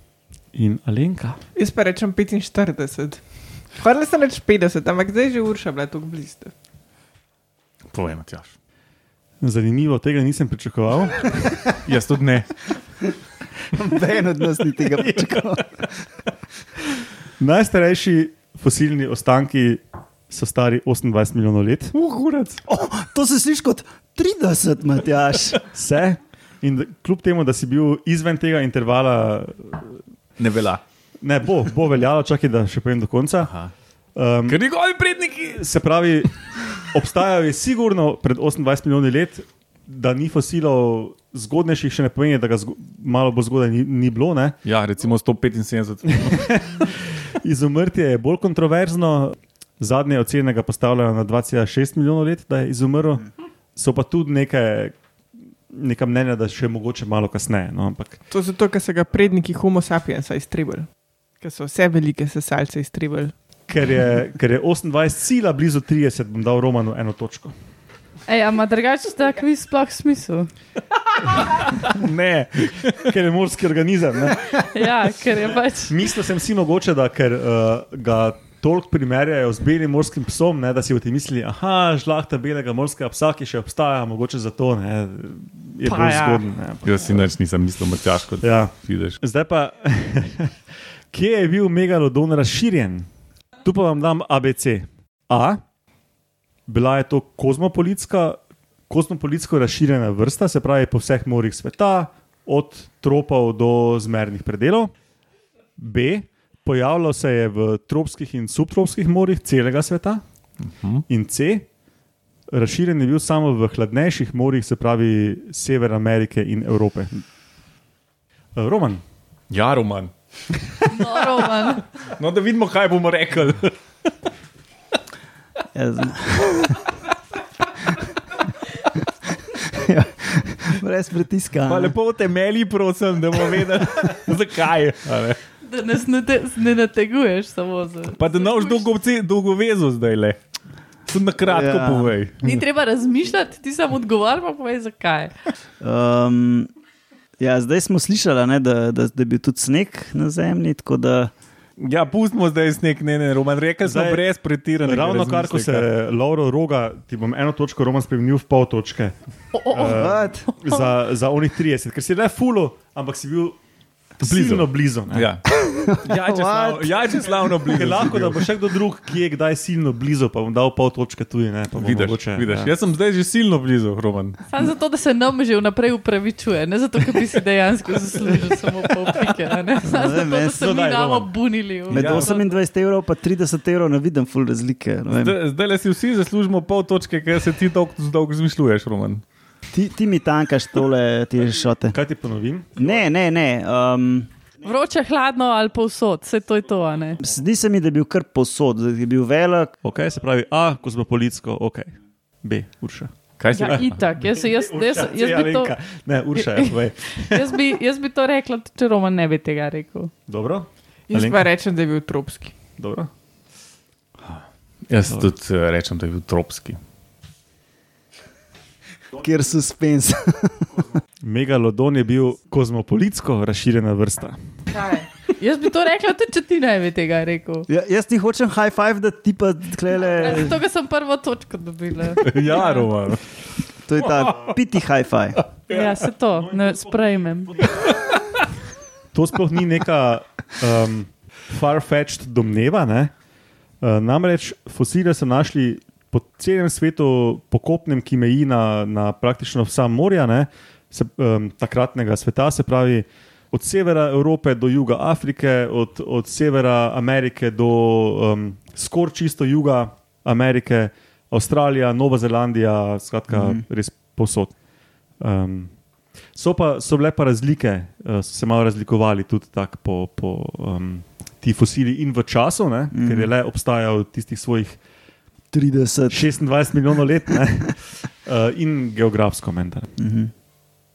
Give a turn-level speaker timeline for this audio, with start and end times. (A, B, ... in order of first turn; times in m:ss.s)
0:00.5-0:01.4 A
0:01.6-0:06.5 B
0:07.9-0:08.5 C
0:09.4-0:11.6 A
0:11.8-0:12.6 C
0:13.7-0:15.9 D
0:17.4-0:22.0 A
0:21.9-0:22.6 C
0:22.6-0:25.6 D
0:25.7-0:30.0 A
0:30.4-0:30.8 C
0:31.2-0:33.5 A
0:33.5-0:33.7 C
0:34.2-0:34.6 A
0:34.5-0:35.6 C
0:35.5-0:44.6 A
0:44.6-0:46.6 C
0:46.2-0:55.0 A
0:55.7-0:58.2 A
0:58.3-1:00.9 B
1:01.4-1:03.3 B
1:03.7-1:07.5 A
1:08.3-1:10.5 E
1:11.3-1:13.1 C
1:12.9-1:14.7 A
1:14.6-1:16.0 E
1:15.5-1:27.3 A
1:25.8-1:26.4 E
1:26.8-1:29.2 C
1:28.4-1:30.5 A
1:31.1-1:33.1 A
1:33.6-1:35.6 A
1:36.7-1:44.9 A
1:45.8-1:50.2 A
1:50.6-1:51.0 C
1:51.1-1:51.7 A
1:52.5-1:57.2 A
1:58.6-1:59.0 A
1:59.5-2:00.1 C
2:00.9-2:01.8 E
2:02.1-2:03.7 C
2:05.7-2:06.8 D
2:09.5-2:12.0 D
2:11.7-2:15.4 C
2:15.6-2:18.8 E
2:18.2-2:20.4 C
2:21.1-2:22.6 C
2:21.4-2:22.2 D
2:22.4-2:25.3 E
2:25.8-2:26.7 D
2:27.4-2:31.3 D
2:31.8-2:35.9 C
2:33.8-2:34.2 A
2:34.8-2:43.6 A
2:39.5-2:40.9 E
2:40.0-2:40.5 D
2:44.2-2:45.3 A
2:44.2-2:48.4 C
2:45.6-2:47.1 D
2:47.7-2:52.7 A
2:51.8-2:54.4 C
2:54.5-3:02.5 E
2:59.8-3:00.6 D
3:00.6-3:01.3 A
3:01.9-3:05.4 D
3:01.9-3:02.4 C
3:05.1-3:09.2 C
3:09.7-3:12.0 D
3:11.9-3:12.8 A
3:12.8-3:14.3 D
3:14.6-3:17.2 E
3:17.2-3:19.7 D
3:19.8-3:27.5 A
3:23.4-3:24.0 C
3:23.5-3:25.8 E
3:26.4-3:30.1 E
3:30.3-3:31.4 A
3:31.1-3:32.5 B
3:32.8-3:33.1 A
3:34.2-3:36.8 C
3:39.2-3:40.8 D
3:41.2-3:44.4 A
3:44.7-3:47.7 E
3:47.7-3:50.6 D
3:50.1-3:52.9 E
3:52.2-3:53.2 C
3:53.9-3:55.4 D
3:55.7-3:57.6 E
3:56.5-3:57.7 A
3:59.1-4:03.1 A
4:03.8-4:24.6 A
4:23.3-4:23.6 D
4:25.2-4:25.7 A
4:26.4-4:34.8 A
4:32.9-4:33.3 D
4:35.5-4:36.3 D
4:36.1-4:39.9 A
4:40.0-4:40.3 D